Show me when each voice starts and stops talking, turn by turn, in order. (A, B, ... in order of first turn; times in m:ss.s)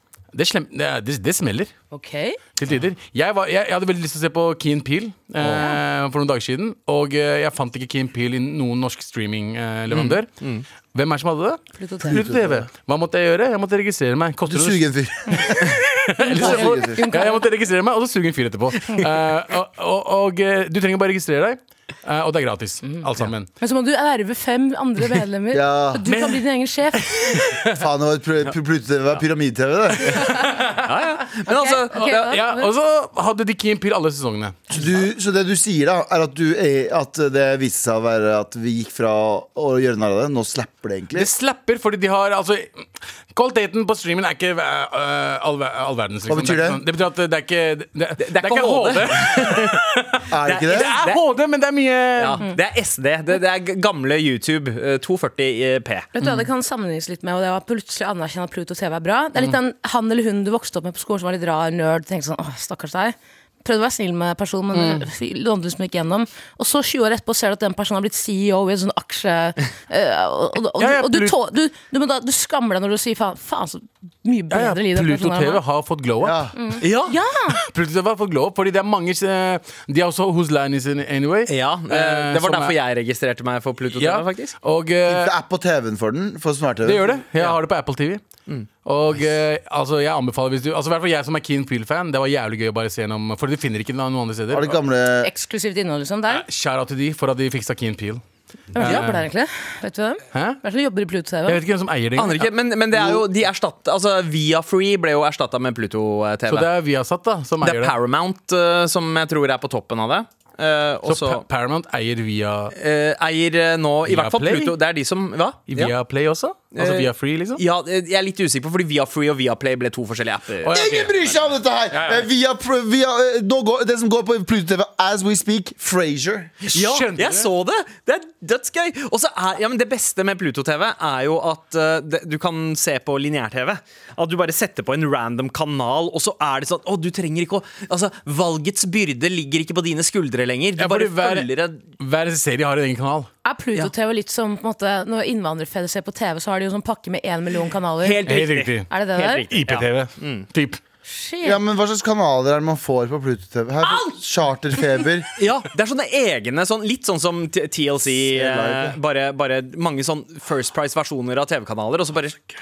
0:00.3-0:01.7 A
0:01.9-0:02.4 B
0:02.6-0:10.3 A
0:09.9-0:10.6 C
0:10.9-0:14.8 A
0:11.8-0:12.2 B
0:12.1-0:12.7 D
0:14.4-0:15.8 D
0:15.6-0:23.5 A
0:16.2-0:17.4 B
0:16.4-0:17.0 D
0:23.6-0:27.0 B
0:25.5-0:26.0 D
0:26.0-0:27.8 A
0:27.7-0:30.3 D
0:30.2-0:31.2 A
0:30.2-0:30.4 B
0:30.8-0:32.4 C
0:31.5-0:32.7 B
0:32.0-0:34.7 A
0:34.7-0:41.3 D
0:41.1-0:52.4 A
0:46.3-0:46.8 D
0:48.2-0:49.8 C
0:50.3-0:50.9 D
0:50.4-0:51.2 C
0:52.2-0:56.1 C
0:56.2-1:15.6 B
1:04.7-1:05.0 A
1:10.8-1:11.4 A
1:14.5-1:16.4 A
1:16.2-1:16.5 D
1:16.6-1:17.6 B
1:16.8-1:17.1 C
1:17.5-1:22.7 A
1:21.5-1:24.6 C
1:24.0-1:25.3 A
1:25.0-1:27.2 D
1:26.8-1:28.2 A
1:28.8-1:34.8 A
1:34.5-1:35.3 D
1:35.2-1:36.4 B
1:36.3-1:38.2 A
1:38.7-1:39.3 A
1:38.7-1:41.6 B
1:40.3-1:40.6 A
1:41.5-1:42.5 A
1:42.2-1:46.7 C
1:46.5-1:47.9 A
1:47.6-1:51.4 C
1:51.1-1:52.7 A
1:52.7-1:55.9 C
1:54.0-1:54.7 A
1:55.7-1:57.6 A
1:56.7-2:00.8 C
2:00.6-2:01.2 A
2:00.7-2:06.6 D
2:01.9-2:02.3 A
2:06.6-2:07.5 A
2:06.7-2:21.8 C
2:20.8-2:23.3 A
2:23.4-2:28.2 B
2:28.0-2:30.5 C
2:28.2-2:28.9 A
2:28.9-2:29.4 B
2:29.5-2:30.8 A
2:31.0-2:31.6 B
2:31.4-2:35.3 D
2:35.4-2:42.4 C
2:38.3-2:39.0 D